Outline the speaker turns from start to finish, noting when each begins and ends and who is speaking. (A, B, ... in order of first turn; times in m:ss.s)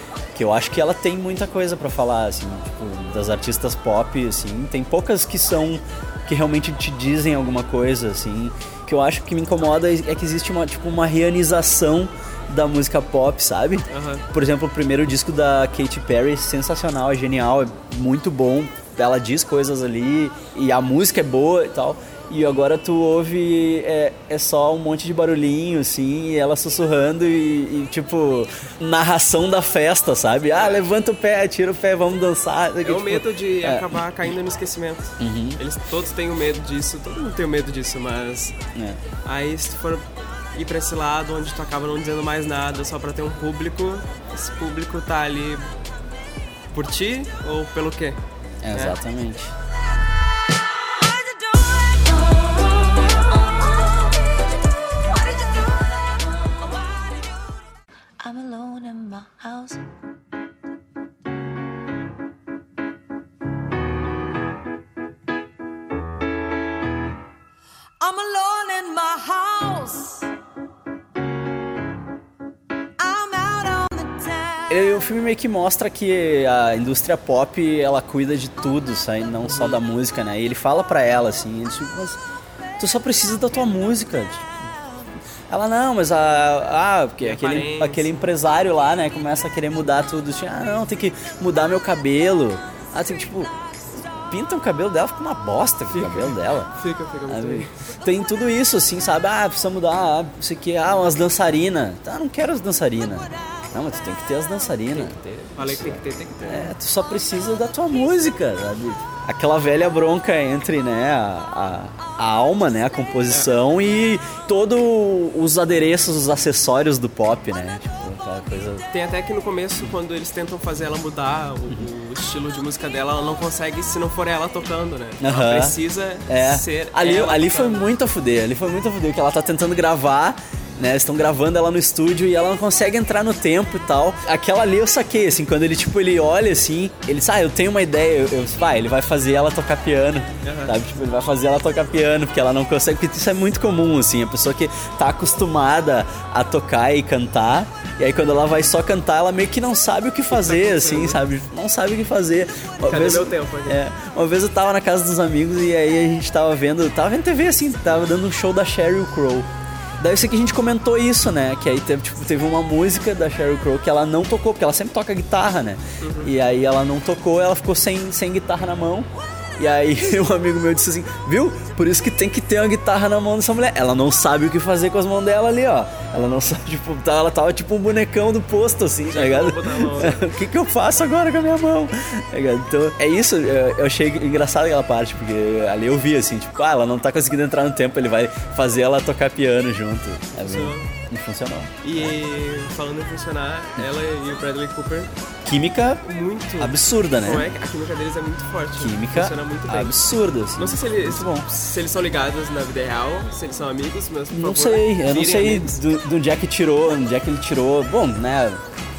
0:00.3-0:33.9 A
0:13.9-0:14.2 B
0:30.5-0:30.8 B
0:32.8-0:38.6 B
0:35.2-0:35.6 A
0:38.7-0:39.0 A
0:39.2-0:45.7 B
0:46.7-0:48.2 B
0:48.6-0:49.5 A
0:51.1-0:57.5 C
0:58.2-0:59.8 C
1:08.0-1:10.3 C
1:13.0-1:14.8 C
1:14.7-1:22.2 A
1:19.5-1:19.8 B
1:22.8-1:24.5 A
1:25.5-1:33.5 A
1:27.2-1:28.1 B
1:34.3-1:36.7 A
1:35.9-1:37.7 B
1:37.3-1:58.9 A
1:45.0-1:46.7 B
1:58.9-2:07.9 B
2:05.2-2:05.8 A
2:06.3-2:39.5 A
2:20.4-2:20.8 B
2:30.3-2:31.2 B
2:32.9-2:33.8 B
2:40.0-3:12.1 A
2:46.0-2:46.3 B
2:59.1-3:00.2 B
3:10.3-3:10.9 B
3:11.8-3:15.1 B
3:15.4-3:16.0 A
3:16.0-3:19.9 B
3:16.6-3:17.5 A
3:18.8-3:21.5 A
3:20.6-3:25.8 B
3:24.3-3:28.6 A